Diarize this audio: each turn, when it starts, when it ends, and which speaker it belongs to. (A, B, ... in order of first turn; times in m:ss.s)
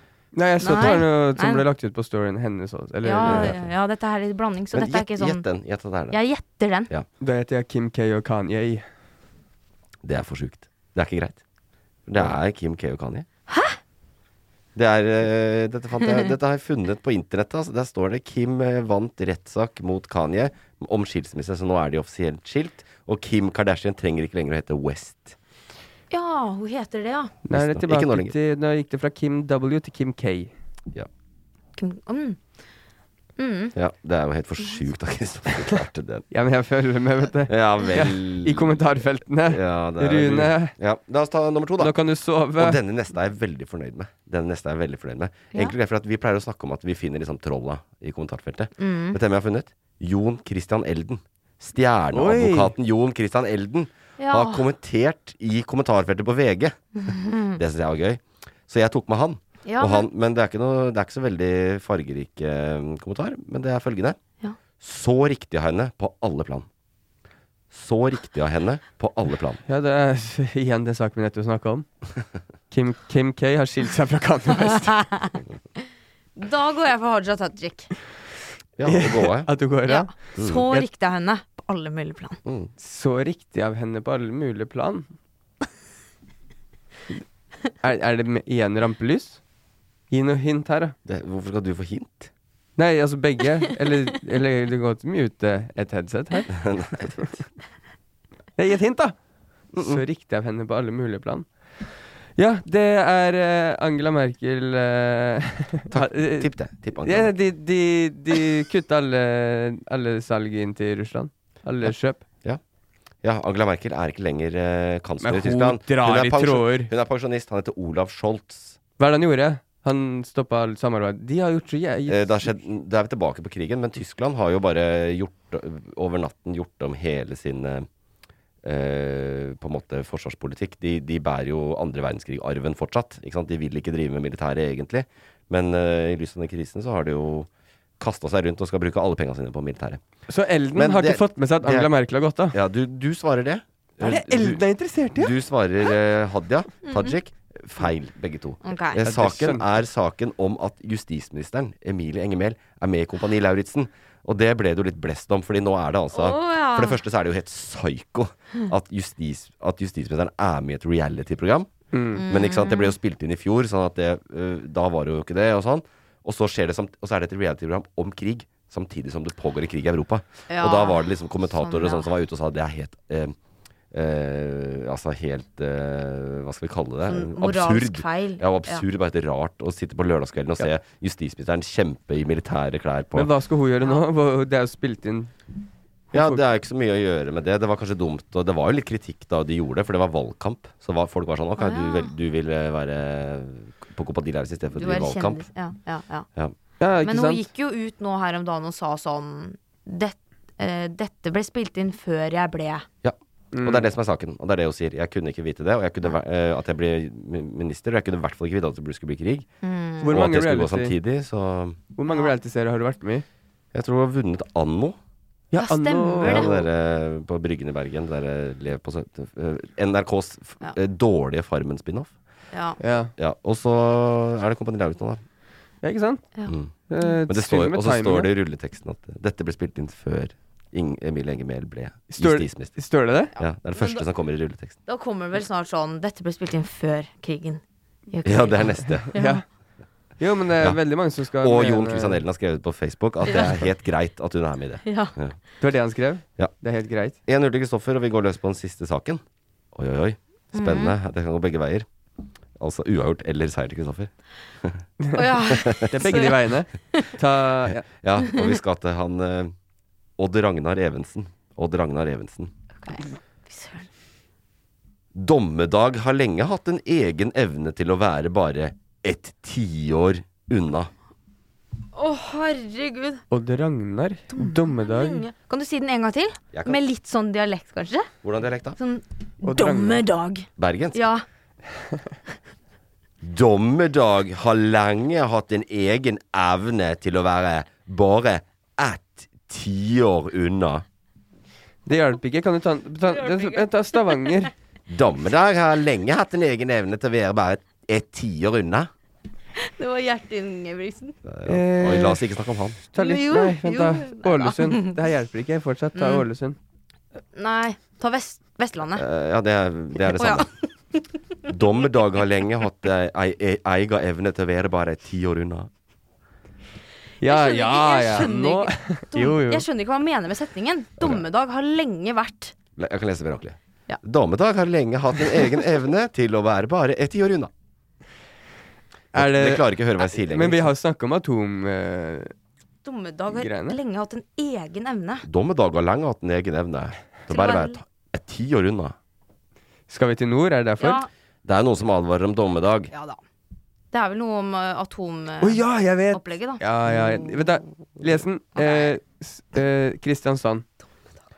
0:00.3-0:03.6 A
0:00.6-0:01.6 B
0:03.0-0:05.5 B
0:03.2-0:03.7 C
0:04.7-0:06.2 C
0:06.1-0:06.9 B
0:07.2-0:08.9 A
0:10.0-0:11.4 C
0:12.1-0:13.3 C
0:13.5-0:13.8 B
0:14.8-0:25.4 C
0:26.1-0:27.4 B
0:27.4-0:30.5 A
0:27.5-0:28.3 C
0:31.8-0:32.4 B
0:33.4-0:33.8 B
0:33.8-0:36.2 C
0:36.3-0:40.7 A
0:37.5-0:38.9 C
0:39.5-0:41.9 C
0:41.8-0:42.8 A
0:42.6-0:56.8 C
0:48.8-0:49.2 B
0:52.1-0:52.7 A
0:54.2-0:54.6 B
0:57.0-0:57.6 B
0:57.6-1:04.2 C
0:59.7-1:00.1 B
1:04.8-1:06.7 C
1:07.7-1:09.6 C
1:09.7-1:11.9 A
1:12.7-1:15.1 A
1:16.4-1:17.9 B
1:18.8-1:19.5 C
1:18.8-1:20.1 A
1:19.9-1:22.4 B
1:20.4-1:20.6 C
1:22.8-1:25.1 A
1:27.8-1:29.4 A
1:30.1-1:31.0 A
1:31.1-1:32.3 C
1:32.8-1:36.5 A
1:36.5-1:37.2 C
1:38.6-1:39.2 A
1:39.7-1:41.5 A
1:39.8-1:40.0 C
1:42.4-1:52.2 A
1:45.9-1:47.4 C
1:53.2-1:58.8 C
1:55.2-1:56.9 A
1:59.0-2:02.6 A
2:02.1-2:07.9 C
2:08.6-2:20.0 C
2:20.3-2:22.6 A
2:20.8-2:21.9 C
2:22.5-2:24.6 C
2:24.0-2:25.3 A
2:25.2-2:41.7 C
2:28.6-2:29.0 B
2:29.0-2:29.6 A
2:36.1-2:37.0 B
2:41.9-2:42.2 A
2:42.2-2:43.0 B
2:42.3-2:53.4 C
2:50.5-2:52.1 B
2:53.9-3:03.3 C
2:57.0-2:58.8 B
3:03.1-3:05.3 A
3:06.1-3:06.4 A
3:06.1-3:15.4 C
3:11.6-3:12.1 B
3:14.8-3:16.3 B
3:16.8-3:17.4 A
3:17.0-3:22.9 B
3:23.0-3:29.5 C
3:23.5-3:23.9 A
3:29.6-3:30.1 B
3:30.0-3:31.0 A
3:30.1-3:31.8 C
3:32.0-3:33.2 A
3:33.7-3:35.0 C
3:35.5-3:36.6 A
3:35.6-3:36.5 B
3:36.2-3:42.1 C
3:42.5-3:42.8 B
3:42.8-3:43.1 A
3:43.2-3:45.2 C
3:45.8-3:48.3 A
3:46.5-3:46.7 C
3:47.3-3:52.8 C
3:52.1-3:53.3 A
3:53.4-3:54.8 C
3:53.8-3:54.0 B
3:54.9-3:59.4 B
3:58.2-3:59.1 C
3:59.0-3:59.4 A
4:00.2-4:02.2 A
4:01.4-4:05.4 C
4:03.3-4:03.6 B
4:04.8-4:05.1 B
4:05.6-4:07.2 A
4:07.3-4:09.2 C
4:09.7-4:11.9 C
4:10.5-4:11.0 B
4:12.6-4:14.1 C
4:15.0-4:15.3 A
4:15.1-4:17.1 B
4:15.6-4:15.9 C
4:15.9-4:17.8 A
4:17.7-4:19.5 C
4:18.3-4:18.5 B
4:20.2-4:22.5 C
4:22.8-4:23.9 B
4:25.2-4:30.9 C
4:32.0-4:33.2 B
4:33.3-4:35.2 A
4:34.3-4:38.1 B
4:36.5-4:36.8 C
4:38.2-4:38.8 C
4:38.8-4:41.2 B
4:39.4-4:40.0 A
4:40.6-4:41.0 C
4:43.2-4:50.8 C
4:51.9-4:54.5 A
4:53.1-4:54.4 B
4:54.9-4:58.9 C
4:59.6-5:01.2 B
5:01.2-5:02.8 C
5:01.5-5:02.3 A
5:02.9-5:06.6 A
5:03.0-5:05.0 B
5:06.0-5:06.3 B
5:07.4-5:09.0 B
5:09.0-5:10.5 C
5:10.1-5:11.0 B
5:11.5-5:15.7 C
5:17.2-5:19.7 A
5:17.2-5:22.6 B
5:22.8-5:27.5 C
5:29.1-5:30.7 C
5:29.1-5:32.3 A
5:32.8-5:35.2 B
5:33.3-5:33.8 A
5:35.2-5:39.0 C
5:37.3-5:37.8 B
5:39.9-5:41.0 A
5:40.8-5:41.1 B
5:41.4-5:42.9 C
5:42.9-5:43.2 B
5:43.9-5:46.6 B
5:45.4-5:50.7 A
5:48.6-5:48.9 B